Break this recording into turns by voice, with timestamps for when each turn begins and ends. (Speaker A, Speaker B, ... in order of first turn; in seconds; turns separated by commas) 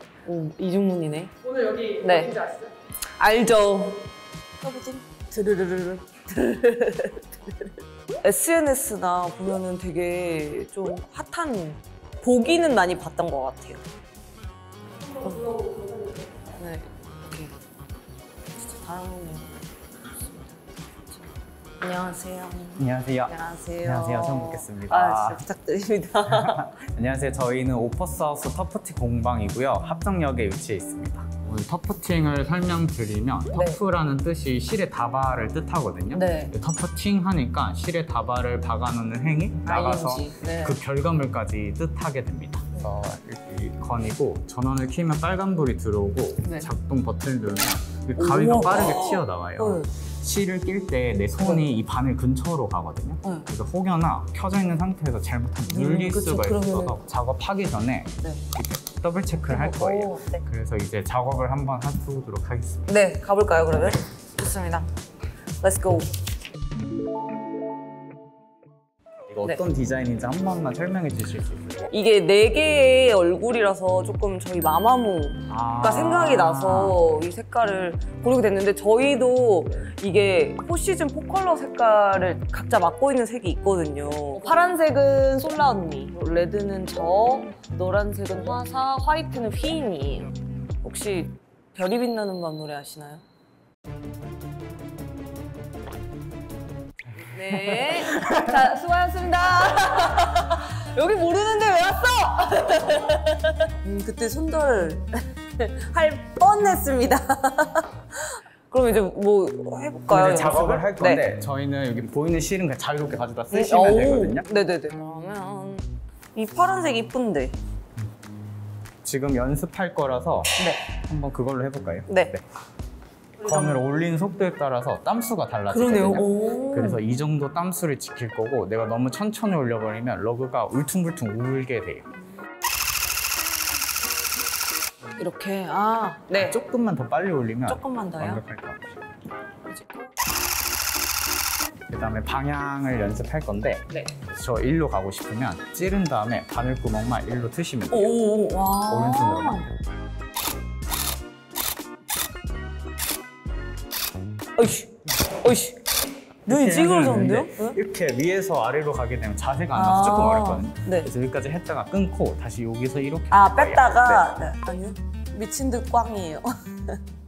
Speaker A: 0.2-2.5, Speaker A: 3.2-4.0, Speaker A: 4.6-13.8, Speaker A: 15.2-15.7, Speaker A: 16.6-17.6, Speaker A: 18.6-20.6, Speaker A: 21.8-26.7, Speaker B: 22.8-25.4, Speaker B: 26.3-62.9, Speaker A: 33.5-33.8, Speaker A: 36.1-36.5, Speaker A: 39.6-40.8, Speaker A: 46.4-46.7, Speaker A: 48.2-49.9, Speaker A: 51.4-51.7, Speaker A: 55.7-57.0, Speaker A: 59.5-60.4, Speaker A: 62.9-64.9, Speaker A: 65.6-66.1, Speaker B: 69.3-71.9, Speaker A: 71.9-90.3, Speaker B: 75.5-77.1, Speaker A: 90.8-93.2, Speaker A: 97.2-111.3, Speaker B: 97.8-98.5, Speaker B: 110.1-114.5, Speaker A: 113.5-117.6, Speaker B: 119.0-122.4, Speaker A: 120.6-120.8, Speaker A: 122.1-122.3, Speaker B: 123.4-132.1, Speaker A: 125.7-127.0, Speaker A: 135.2-136.6, Speaker B: 136.4-138.8, Speaker A: 137.7-138.4, Speaker A: 139.7-140.1, Speaker B: 141.9-148.1, Speaker A: 143.9-144.2, Speaker A: 147.9-149.7, Speaker B: 148.9-149.8, Speaker A: 154.6-155.8, Speaker A: 156.5-157.8, Speaker B: 156.5-164.3, Speaker A: 159.7-161.1, Speaker A: 163.3-167.0